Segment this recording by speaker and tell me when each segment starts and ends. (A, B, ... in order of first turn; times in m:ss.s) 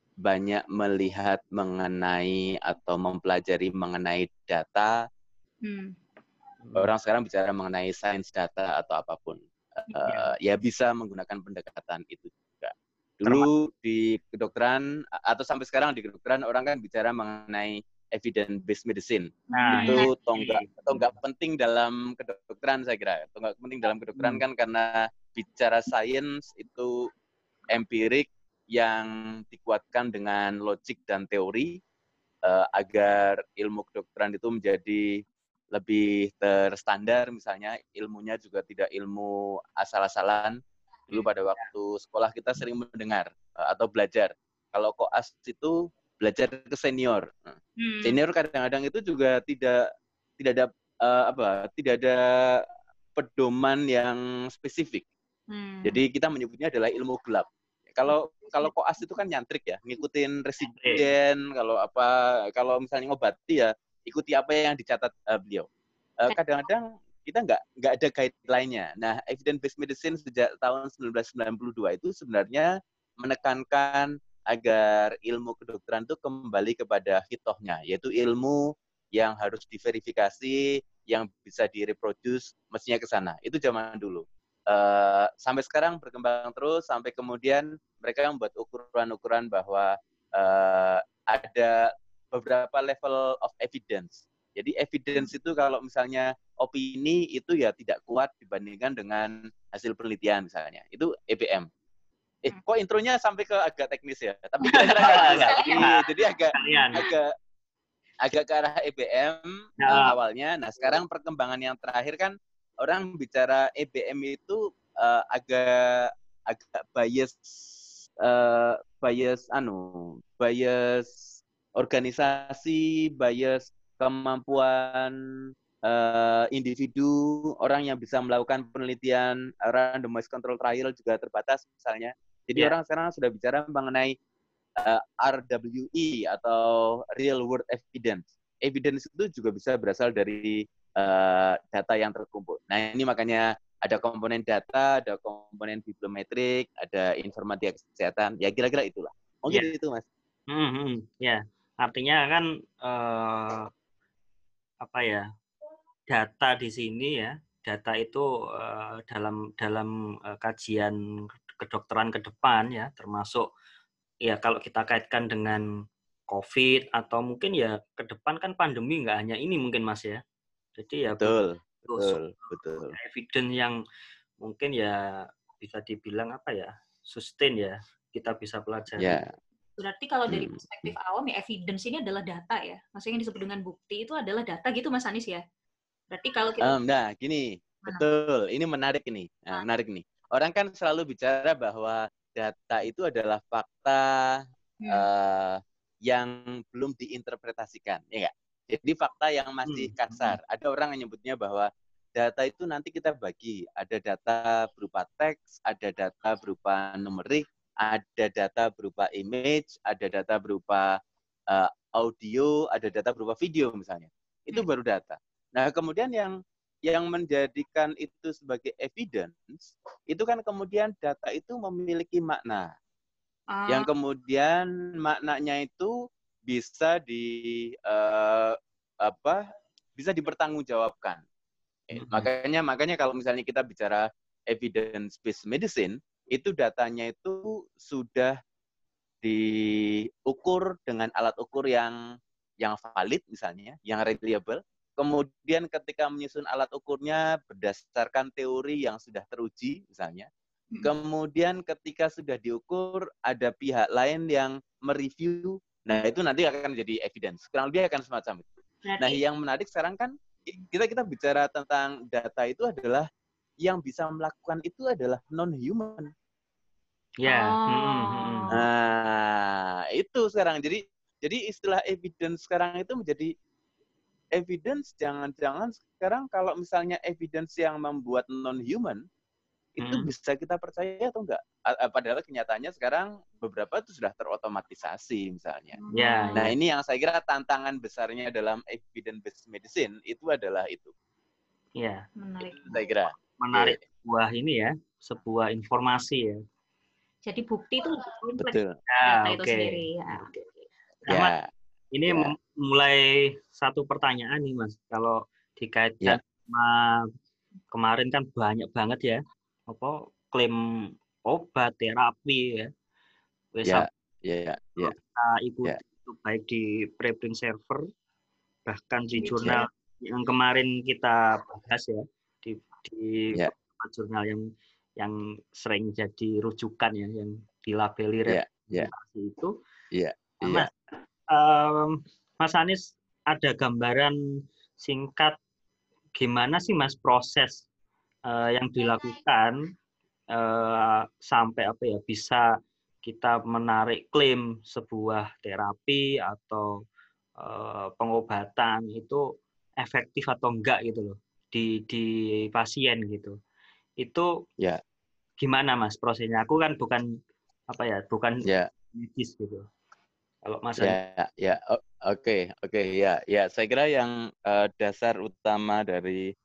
0:00.2-0:04.9 A
0:05.6-0:06.0 B
0:06.6-0:06.9 C
0:06.8-0:26.9 A
0:19.5-0:20.1 B
0:19.5-0:21.1 C
0:24.2-0:24.4 C
0:27.7-0:31.7 A
0:32.4-0:40.6 A
0:41.1-0:49.8 A
0:47.8-0:48.2 B
0:50.4-0:52.6 A
0:53.1-0:55.0 A
0:55.5-0:56.0 B
0:55.8-1:05.7 A
1:00.7-1:01.0 C
1:06.2-1:41.7 A
1:42.4-1:47.3 A
1:44.6-1:47.1 B
1:44.7-1:46.0 C
1:46.5-1:47.0 C
1:48.2-2:01.2 A
1:49.8-1:50.1 C
1:49.8-1:50.1 B
2:01.8-2:05.2 A
2:05.8-2:14.2 A
2:14.8-2:30.0 A
2:30.5-2:33.7 C
2:34.8-2:35.3 C
2:36.1-2:41.0 C
2:41.6-2:43.5 C
2:44.2-2:45.6 C
2:46.3-2:50.2 C
2:50.7-2:52.2 C
2:51.2-2:53.0 A
2:52.9-2:53.8 C
2:54.4-2:59.2 C
2:59.0-2:59.3 A
2:59.8-3:05.4 B
3:00.3-3:00.6 A
3:06.1-3:06.8 B
3:06.6-3:30.9 A
3:19.7-3:20.4 C
3:31.5-3:36.3 A
3:36.8-3:42.7 A
3:43.5-3:43.9 B
3:43.7-3:45.9 A
3:46.5-3:49.4 A
3:50.0-3:51.2 A
3:51.9-3:58.4 A
3:52.0-3:52.3 C
3:59.2-4:01.9 A
4:02.6-4:10.3 A
4:10.8-4:23.1 A
4:18.8-4:19.2 B
4:23.6-4:26.1 A
4:27.2-4:28.5 C
4:27.2-4:28.5 B
4:28.5-4:33.3 A
4:34.3-4:39.0 A
4:39.8-4:45.8 A
4:39.8-4:40.1 C
4:45.8-4:46.5 B
4:45.9-4:46.5 C
4:46.3-4:50.9 A
4:51.8-4:52.0 C
4:52.2-4:52.8 B
4:52.4-4:53.8 A
4:53.4-4:56.4 C
4:57.2-5:00.6 B
4:58.4-4:58.8 A
4:58.9-4:59.8 C
5:01.0-5:01.5 A
5:01.1-5:01.3 C
5:01.9-5:07.1 C
5:02.1-5:02.3 A
5:07.7-5:12.7 C
5:13.5-5:13.9 C
5:13.6-5:14.9 A
5:14.8-5:17.8 C
5:18.6-5:24.4 C
5:19.1-5:19.6 B
5:25.0-5:29.5 C
5:28.2-5:28.9 A
5:29.9-5:30.7 A
5:30.5-5:30.7 C
5:31.3-5:34.1 C
5:34.8-5:35.4 C
5:36.2-5:37.6 C
5:38.3-5:39.6 C
5:40.3-5:42.4 C
5:43.0-5:46.7 C
5:47.4-5:49.2 C
5:49.8-5:53.3 C
5:54.0-5:54.3 C
5:55.4-5:57.0 C
5:57.7-5:59.6 C
6:00.4-6:01.0 C
6:00.8-6:06.3 A